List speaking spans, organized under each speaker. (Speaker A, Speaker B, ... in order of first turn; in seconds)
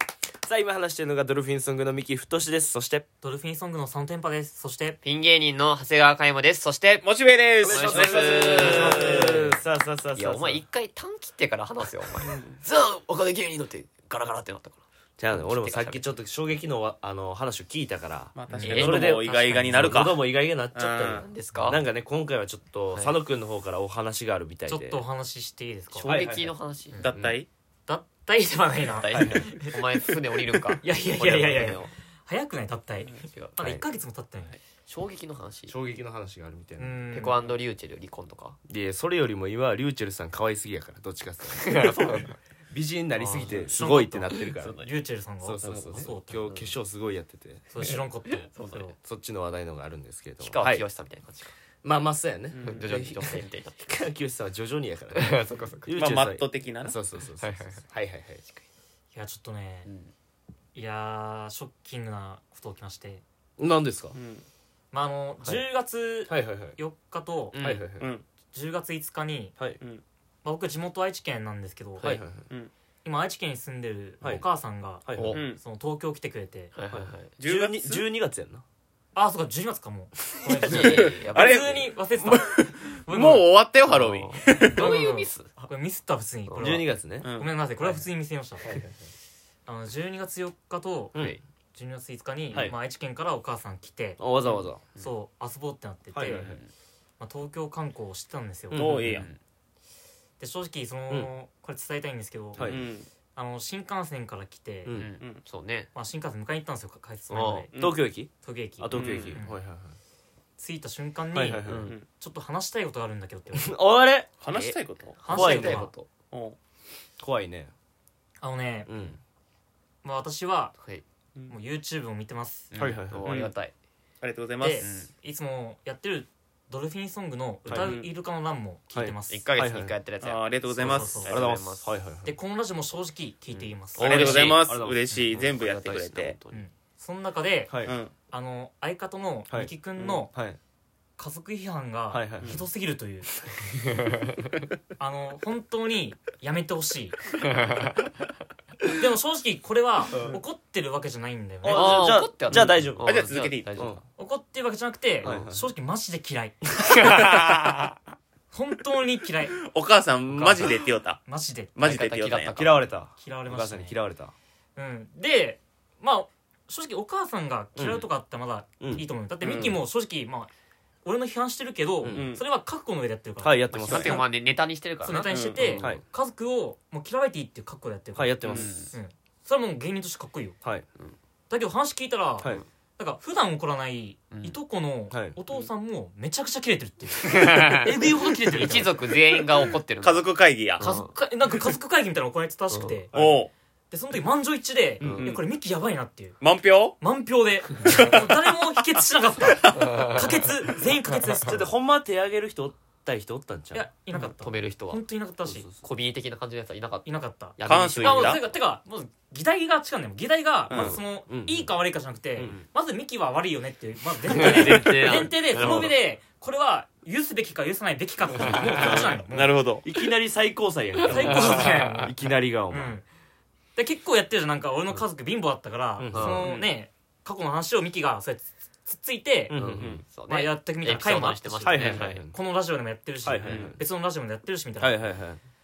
Speaker A: 0.4-3.0, 7.6-10.6, 15.2-25.0, 26.1-26.6, 27.1-27.4, 29.1-29.5, 35.7-37.1, 38.7-44.8, 45.4-47.6, 49.0-50.9, 51.8-58.4, 63.6-64.2, 66.3-66.8, 67.6-68.1, 72.0-72.5, 74.2-74.5, 75.0-75.4, 76.9-78.6, 86.5-87.3, 88.6-89.0, 91.1-91.4, 94.2-94.8, 96.1-96.6, 98.7-99.3, 102.5-102.9, 104.8-105.1, 107.8-110.0, 111.3-112.0, 113.5-114.7, 115.3-115.9, 117.2-117.7, 118.9-119.2, 122.8-123.5, 127.7-127.9, 128.9-130.0, 130.9-132.3, 133.5-135.0, 137.7-138.0, 139.5-140.6, 142.1-142.6, 150.1-150.4, 151.6-154.0, 155.2-155.7, 160.3-160.8, 162.5-164.3, 167.8-168.1, 168.8-169.7, 172.0-172.4, 173.4-174.2, 178.2-178.9, 185.1-185.4, 195.0-195.3, 201.4-203.9, 205.4-205.8, 210.7-211.7, 214.4-215.9, 218.3-219.1, 219.8-223.0, 226.0-226.6, 229.5-230.0, 231.6-232.3, 233.2-233.8, 234.8-235.4
Speaker B: 3.2-5.0, 18.5-19.7, 24.7-26.2, 27.9-29.8, 30.8-34.5, 36.8-37.5, 43.2-46.5, 47.7-49.0, 59.1-59.9, 60.8-63.2, 64.9-67.6, 68.5-69.6, 70.4-72.2, 73.0-76.7, 79.2-83.5, 84.6-88.7, 89.7-91.2, 91.7-94.2, 94.8-96.5, 97.2-98.9, 100.4-102.7, 103.3-104.9, 105.9-107.7, 108.4-109.6, 110.6-113.8, 115.2-115.9, 118.4-118.9, 120.0-120.8, 121.5-122.7, 124.6-129.4, 130.8-131.4, 132.2-134.5, 136.5-137.7, 138.3-140.3, 141.2-143.3, 145.0-147.2, 148.9-152.3, 154.2-157.8, 158.5-159.6, 161.3-161.8, 163.2-164.0, 164.8-170.5, 171.1-174.3, 175.0-180.6, 181.5-189.3, 190.8-193.1, 193.9-196.4, 197.0-201.7, 203.7-205.7, 207.1-219.6, 221.0-222.2, 222.7-223.0, 223.8-229.6, 230.3-235.1
Speaker C: 5.0-7.0, 7.6-9.6, 10.2-16.1, 18.6-20.0, 21.1-21.8, 25.9-27.0, 28.9-31.9, 33.2-33.8, 34.9-35.8, 37.1-38.6, 41.5-42.4, 43.3-43.8, 44.3-44.9, 45.6-46.8, 47.8-48.9, 50.4-51.6, 52.6-53.8, 55.1-55.9, 57.4-57.8, 59.9-60.1, 67.5-67.8, 75.2-75.4, 76.7-77.3, 80.5-81.9, 83.9-85.5, 94.5-95.1, 96.3-96.7, 99.0-99.4, 104.9-105.9, 107.3-107.7, 111.7-112.0, 114.5-116.1, 120.8-121.0, 122.7-123.7, 124.8-125.1, 129.3-131.9, 134.0-134.7, 135.3-136.7, 151.6-154.0, 161.8-162.8, 173.7-176.0, 178.5-178.9, 184.3-184.6, 187.2-190.2, 190.8-191.1, 192.7-193.0, 195.0-195.4, 200.0-200.3, 204.1-205.0, 205.8-208.4, 214.3-215.9, 218.4-218.8, 221.1-221.8, 226.1-226.6, 229.5-232.2
Speaker D: 7.0-9.5, 12.2-12.6, 18.4-21.3, 27.0-27.5, 52.5-52.9, 56.0-57.0, 64.1-64.5, 68.0-68.2, 75.3-75.6, 77.4-78.1, 80.7-85.0, 87.2-87.5, 98.7-99.3, 102.6-103.1, 107.7-108.0, 108.9-109.4, 114.4-115.2, 116.3-116.6, 123.2-123.5, 124.2-124.9, 127.7-128.1, 130.2-131.5, 134.0-136.4, 137.9-138.1, 152.5-153.7, 157.0-157.9, 159.7-161.2, 161.8-162.8, 169.4-169.8, 172.1-172.4, 175.3-175.9, 190.0-190.8, 193.1-193.5, 196.4-197.0, 197.9-198.3, 199.5-200.0, 207.7-208.4, 210.7-211.0, 218.7-219.8, 229.8-230.0, 233.5-233.7